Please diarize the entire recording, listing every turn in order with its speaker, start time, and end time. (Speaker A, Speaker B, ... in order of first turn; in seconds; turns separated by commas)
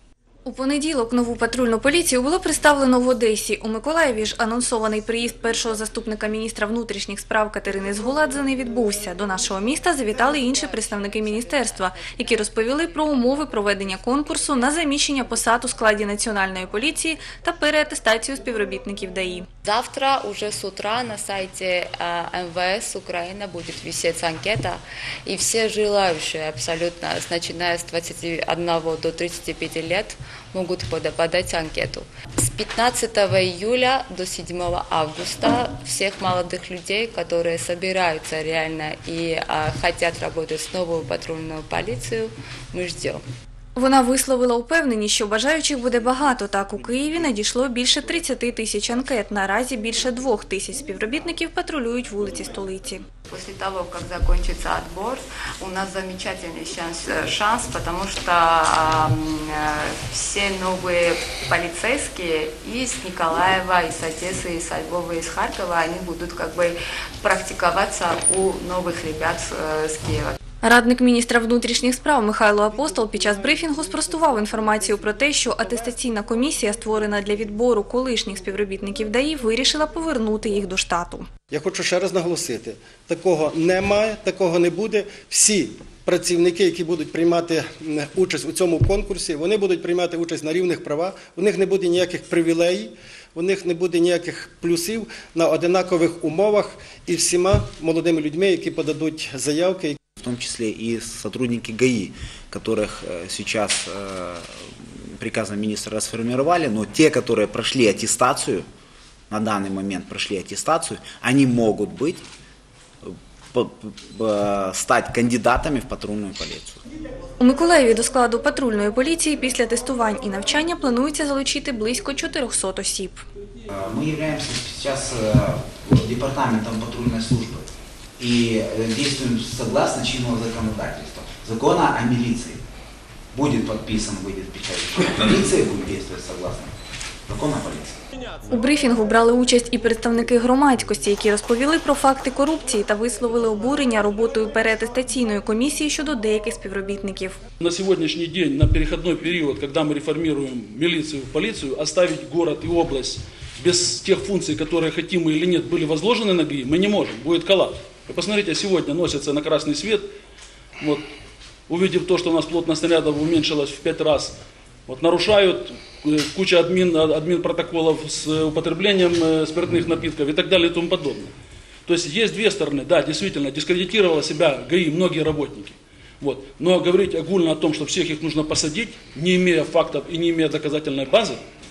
Speaker A: 0.5-19.5, Speaker B: 10.2-13.4, Speaker B: 19.6-43.2, Speaker A: 43.7-53.0, Speaker B: 53.3-70.4, Speaker A: 70.6-81.3, Speaker C: 81.5-100.0, Speaker D: 100.2-108.7, Speaker D: 109.3-112.2, Speaker D: 113.0-116.8, Speaker A: 117.4-123.2, Speaker D: 123.7-132.6, Speaker D: 133.3-136.7, Speaker D: 137.3-138.0, Speaker A: 138.5-147.4, Speaker E: 147.6-160.1, Speaker E: 160.8-161.1, Speaker E: 161.7-164.3, Speaker E: 164.9-171.3, Speaker E: 171.8-181.4